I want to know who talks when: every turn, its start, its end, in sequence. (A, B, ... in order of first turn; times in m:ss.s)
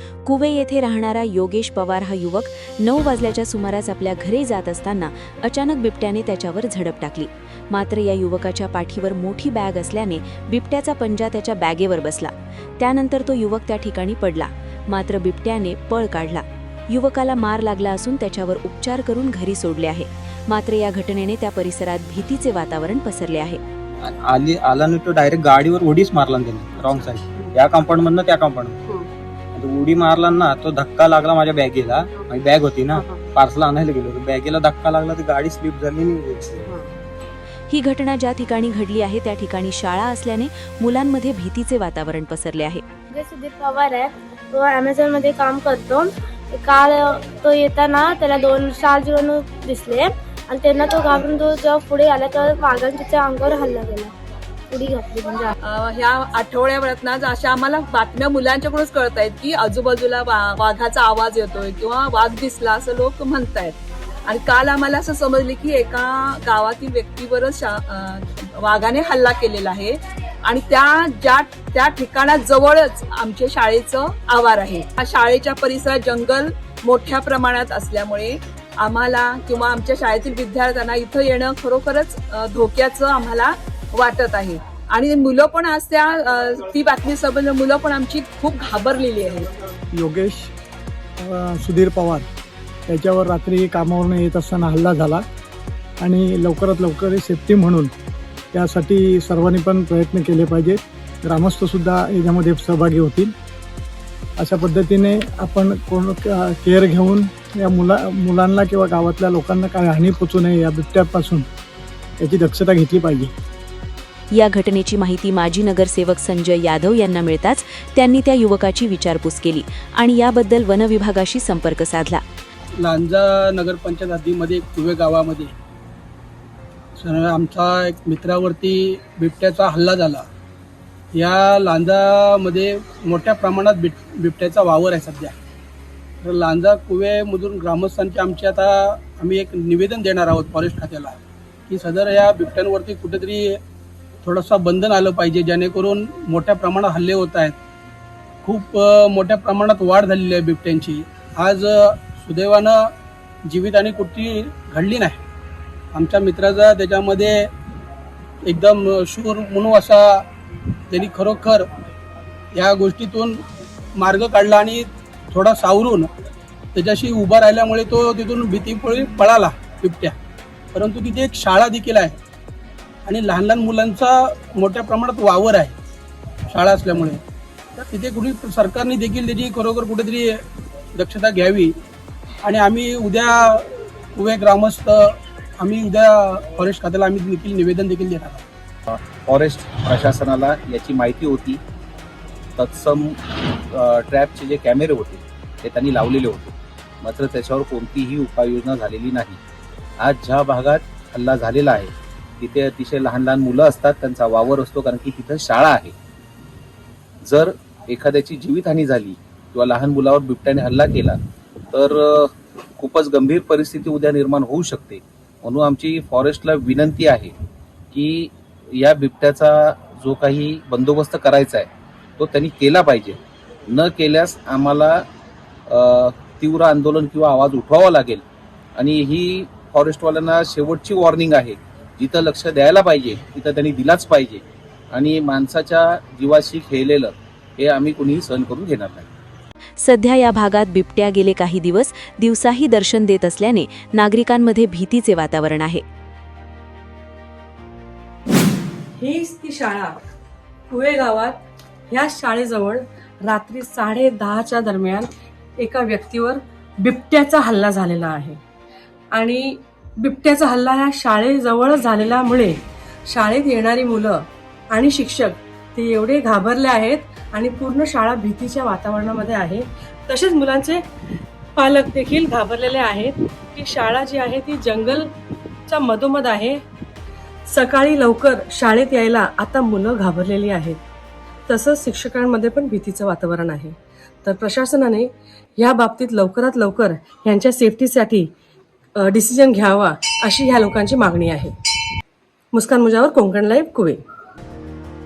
0:00.2-0:23.6 A
0:24.0-0:28.8 B
0:29.5-0:36.8 B
0:37.7-0:42.8 A
0:43.1-0:54.1 C
0:54.7-0:55.5 C
0:55.7-1:03.7 D
1:04.3-1:29.5 D
1:30.0-1:30.5 E
1:31.2-1:32.2 E
1:32.9-1:35.2 E
1:36.0-1:37.9 E
1:38.5-1:43.3 E
1:44.4-1:51.4 E
1:52.2-1:53.3 E
1:54.3-2:02.2 A
2:02.8-2:05.5 F
2:07.0-2:10.2 F
2:11.1-2:15.3 F
2:16.2-2:21.2 F
2:21.7-2:23.6 F
2:24.2-2:27.6 F
2:28.4-2:32.8 F
2:33.4-2:35.2 F
2:35.9-2:37.3 F
2:38.4-2:40.2 F
2:40.9-2:41.6 F
2:42.5-2:43.4 F
2:44.0-2:46.1 F
2:46.7-2:50.1 F
2:50.7-2:52.2 F
2:53.0-2:55.7 F
2:56.5-2:57.2 F
2:57.9-3:00.3 F
3:00.9-3:01.7 F
3:02.4-3:08.4 F
3:08.9-3:11.6 G
3:12.6-3:19.4 G
3:20.0-3:25.9 G
3:27.2-3:31.2 G
3:31.7-3:37.3 G
3:37.9-3:43.2 G
3:43.7-3:45.0 G
3:45.7-3:48.2 G
3:48.8-3:59.0 G
3:59.8-4:05.8 A
4:09.0-4:10.0 H
4:10.7-4:18.4 H
4:19.1-4:30.8 H
4:31.6-4:35.1 H
4:35.7-4:36.6 H
4:37.5-4:40.8 H
4:41.5-4:48.3 H
4:49.0-4:51.6 H
4:52.5-4:54.0 H